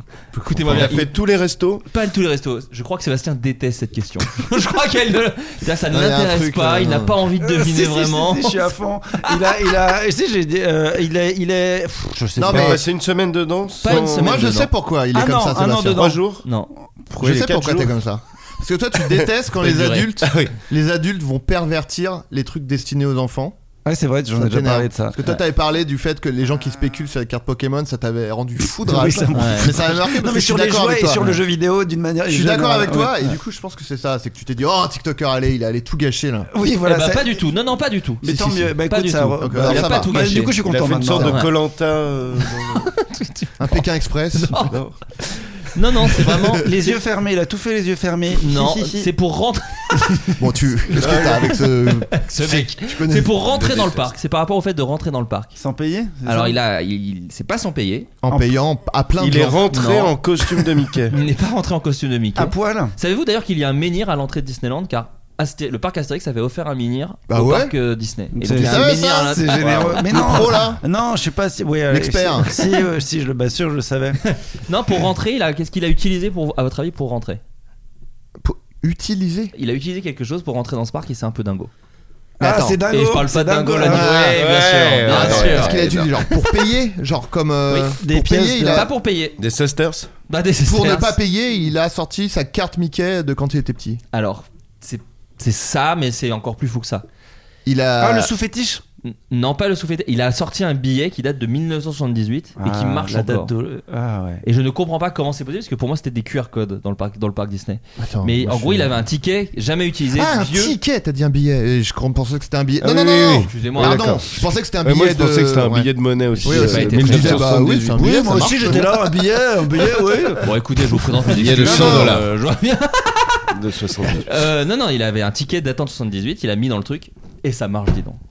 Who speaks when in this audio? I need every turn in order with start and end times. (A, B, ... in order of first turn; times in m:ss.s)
0:00.3-0:01.1 A
0:00.5-0:00.9 B
0:00.6-0:01.8 C
0:01.9-0:08.7 A
0:05.9-0:07.1 B
0:07.4-0:12.8 D
0:12.4-0:12.8 B
0:12.5-0:14.5 C
0:13.8-0:14.7 A
0:13.9-0:16.1 B
0:15.1-0:16.2 D
0:15.9-0:16.4 C
0:16.4-0:16.7 A
0:17.1-0:17.9 C
0:17.2-0:23.6 B
0:17.2-0:17.8 D
0:19.6-0:20.4 A
0:20.2-0:20.6 C
0:23.9-0:25.2 D
0:24.4-0:31.4 B
0:28.8-0:33.4 D
0:29.3-0:29.7 A
0:32.3-0:36.5 B
0:36.5-0:37.4 D
0:36.8-0:38.3 A
0:38.2-0:41.4 D
0:38.2-0:38.8 B
0:38.8-0:40.6 A
0:39.4-0:40.3 B
0:40.6-0:42.9 C
0:41.2-0:41.5 A
0:42.5-0:44.7 A
0:43.6-0:44.8 B
0:44.7-0:45.0 C
0:45.6-0:47.0 A
0:46.6-0:49.1 D
0:48.3-0:50.4 A
0:50.4-0:54.0 B
0:51.0-0:55.6 A
0:51.0-0:51.5 C
0:53.5-0:54.0 C
0:55.6-0:56.6 D
0:56.2-0:58.1 A
0:58.2-0:59.8 B
0:58.3-0:58.6 D
0:59.2-1:01.2 C
0:59.7-1:10.7 A
1:02.4-1:02.9 D
1:07.3-1:07.7 B
1:08.4-1:14.2 D
1:08.5-1:10.8 B
1:09.7-1:10.0 C
1:11.9-1:12.6 B
1:14.2-1:17.4 A
1:18.4-1:19.5 B
1:19.6-1:21.7 A
1:22.4-1:22.8 B
1:22.4-1:24.1 D
1:22.9-1:26.5 A
1:23.8-1:24.4 B
1:24.2-1:26.1 C
1:25.0-1:28.9 B
1:28.0-1:28.9 D
1:28.7-1:29.4 A
1:29.4-1:30.1 C
1:30.3-1:31.2 A
1:30.6-1:34.0 B
1:34.1-1:37.0 A
1:37.7-1:38.3 B
1:38.0-1:38.8 D
1:39.0-1:43.5 A
1:42.6-1:44.4 D
1:44.4-1:50.8 A
1:48.0-1:48.9 B
1:50.1-1:55.9 B
1:52.8-1:58.8 C
1:53.5-1:54.3 A
1:56.4-1:57.5 A
1:56.4-1:59.1 B
1:57.9-2:00.5 D
2:00.4-2:03.4 A
2:01.4-2:02.3 C
2:01.4-2:02.2 B
2:03.5-2:04.3 C
2:04.1-2:08.2 A